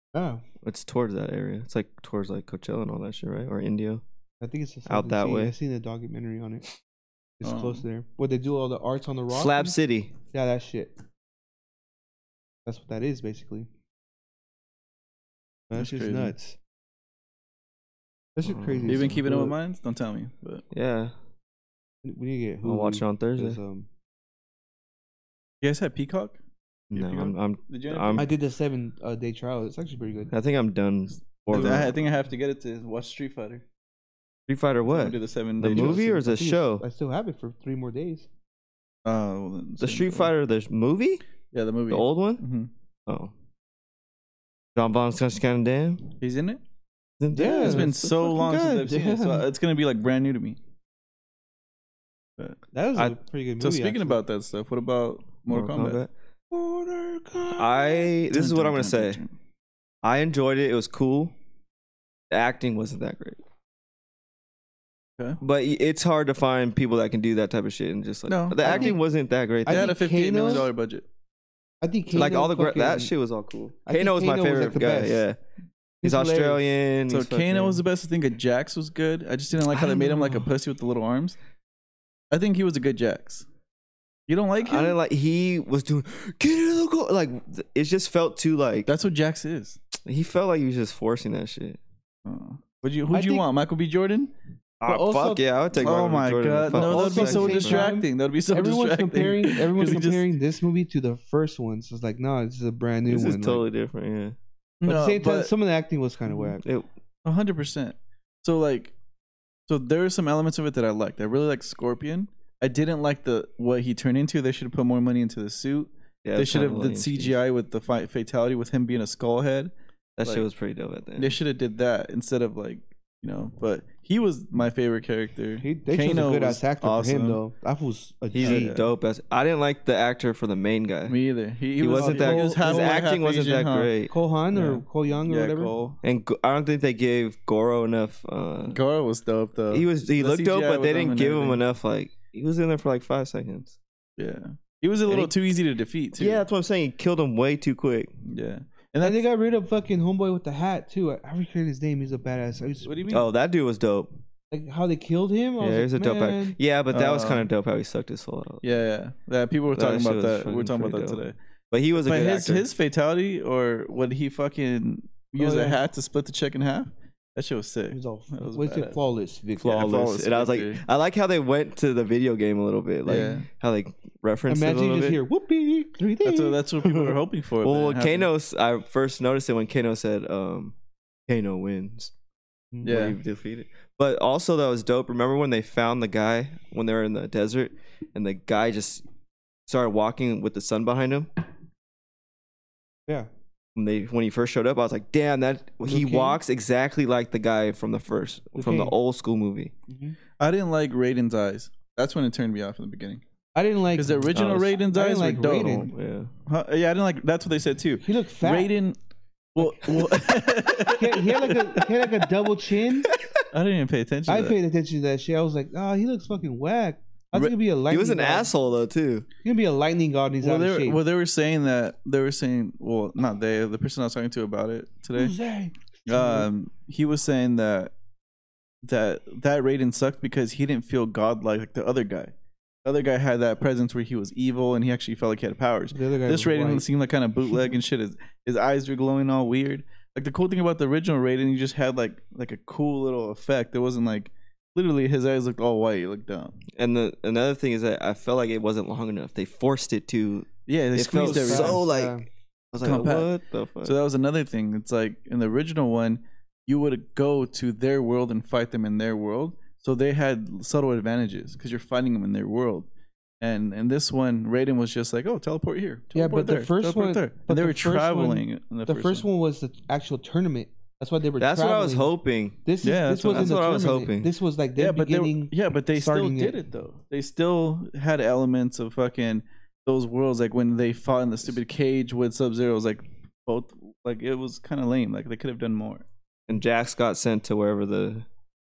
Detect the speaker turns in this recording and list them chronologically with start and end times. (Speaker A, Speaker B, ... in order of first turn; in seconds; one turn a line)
Speaker A: 0.1-0.4
Speaker B: 0.6-4.0
Speaker A: 4.4-6.7
Speaker B: 4.9-5.5
Speaker A: 7.4-9.8
Speaker C: 7.4-7.8
Speaker B: 9.3-10.1
Speaker A: 10.3-10.9
Speaker A: 12.7-13.7
Speaker A: 15.7-16.6
Speaker C: 15.7-16.3
Speaker A: 18.4-19.6
Speaker B: 18.4-19.2
Speaker C: 18.9-20.6
Speaker B: 20.7-21.1
Speaker A: 22.0-23.9
Speaker B: 22.6-23.6
Speaker C: 25.6-26.4
Speaker C: 26.9-28.3
Speaker B: 26.9-28.3
Speaker A: 28.1-30.3
Speaker B: 30.3-31.9
Speaker C: 31.4-33.6
Speaker A: 31.5-31.9
Speaker B: 34.5-36.9
Speaker C: 34.9-36.1
Speaker A: 35.6-38.3
Speaker C: 39.0-40.3
Speaker B: 39.8-41.2
Speaker C: 41.5-42.7
Speaker B: 41.9-42.4
Speaker B: 43.1-43.3
Speaker B: 44.8-46.2
Speaker C: 46.2-46.6
Speaker B: 47.2-49.0
Speaker A: 47.3-47.9
Speaker C: 47.5-50.6
Speaker A: 48.9-49.4
Speaker A: 52.7-54.2
Speaker C: 53.6-56.0
Speaker B: 55.5-56.1
Speaker A: 56.5-58.1
Speaker B: 57.5-59.2
Speaker C: 58.3-59.3
Speaker B: 60.0-61.4
Speaker B: 62.3-63.4
Speaker B: 65.4-70.0
Speaker C: 68.3-69.0
Speaker A: 68.6-69.0
Speaker A: 69.7-70.7
Speaker C: 69.7-71.1
Speaker A: 71.8-73.1
Speaker B: 72.1-75.4
Speaker A: 73.9-75.3
Speaker A: 76.0-76.7
Speaker B: 76.0-77.8
Speaker C: 77.1-81.4
Speaker B: 79.7-80.5
Speaker C: 82.3-83.5
Speaker C: 84.3-85.0
Speaker B: 84.6-88.9
Speaker C: 88.9-89.8
Speaker B: 90.0-91.8
Speaker C: 92.2-94.3
Speaker A: 93.1-93.5
Speaker B: 94.8-97.9
Speaker A: 94.8-95.5
Speaker C: 95.8-100.3
Speaker A: 96.7-103.6
Speaker B: 103.1-104.4
Speaker C: 104.8-105.5
Speaker A: 104.8-106.6
Speaker B: 106.6-106.9
Speaker C: 107.2-109.0
Speaker C: 109.7-119.7
Speaker B: 116.2-117.4
Speaker B: 120.2-121.4
Speaker C: 121.2-127.4
Speaker A: 125.6-128.8
Speaker B: 128.3-131.2
Speaker C: 128.4-128.9
Speaker C: 131.1-133.9
Speaker B: 131.8-134.1
Speaker A: 132.0-133.0
Speaker A: 134.1-135.7
Speaker C: 134.5-136.0
Speaker B: 136.0-138.8
Speaker C: 138.7-141.6
Speaker B: 139.7-143.8
Speaker C: 144.2-146.4
Speaker B: 146.1-148.1
Speaker C: 148.3-149.2
Speaker A: 149.0-153.2
Speaker C: 152.8-153.2
Speaker B: 153.1-154.1
Speaker A: 154.5-156.6
Speaker B: 155.6-158.7
Speaker C: 156.9-157.5
Speaker C: 158.6-161.4
Speaker B: 159.8-162.7
Speaker C: 161.9-169.0
Speaker A: 165.4-165.8
Speaker A: 167.9-169.9
Speaker B: 169.6-175.2
Speaker C: 169.7-170.8
Speaker A: 173.1-173.4
Speaker C: 173.1-173.5
Speaker A: 174.5-177.2
Speaker C: 176.2-178.3
Speaker B: 177.6-180.8
Speaker B: 181.3-182.1
Speaker A: 182.7-183.1
Speaker C: 182.8-183.2
Speaker B: 182.8-189.1
Speaker B: 189.7-191.3
Speaker B: 193.8-199.7
Speaker A: 195.8-196.4
Speaker A: 198.6-198.9
Speaker A: 199.9-200.2
Speaker C: 200.4-203.2
Speaker A: 203.6-205.9
Speaker C: 203.9-205.9
Speaker B: 204.3-204.7
Speaker B: 205.9-206.3
Speaker C: 206.5-209.0
Speaker A: 208.0-208.7
Speaker C: 209.6-211.9
Speaker A: 210.9-213.1
Speaker B: 213.1-213.4
Speaker C: 213.5-214.6
Speaker A: 214.3-218.5
Speaker B: 217.9-219.3
Speaker A: 219.4-221.0
Speaker C: 220.4-225.3
Speaker A: 225.2-226.5
Speaker C: 226.1-227.9
Speaker C: 228.8-232.3
Speaker C: 232.8-246.6
Speaker A: 235.9-236.8
Speaker B: 246.7-252.2
Speaker C: 250.7-251.8
Speaker A: 251.2-252.3
Speaker B: 252.7-253.9
Speaker C: 252.8-253.3
Speaker C: 253.8-262.9
Speaker C: 263.4-269.3
Speaker A: 266.1-272.1
Speaker B: 271.4-272.6
Speaker A: 272.6-276.6
Speaker C: 272.8-273.6
Speaker B: 273.3-274.3
Speaker C: 274.8-286.1
Speaker B: 286.5-288.3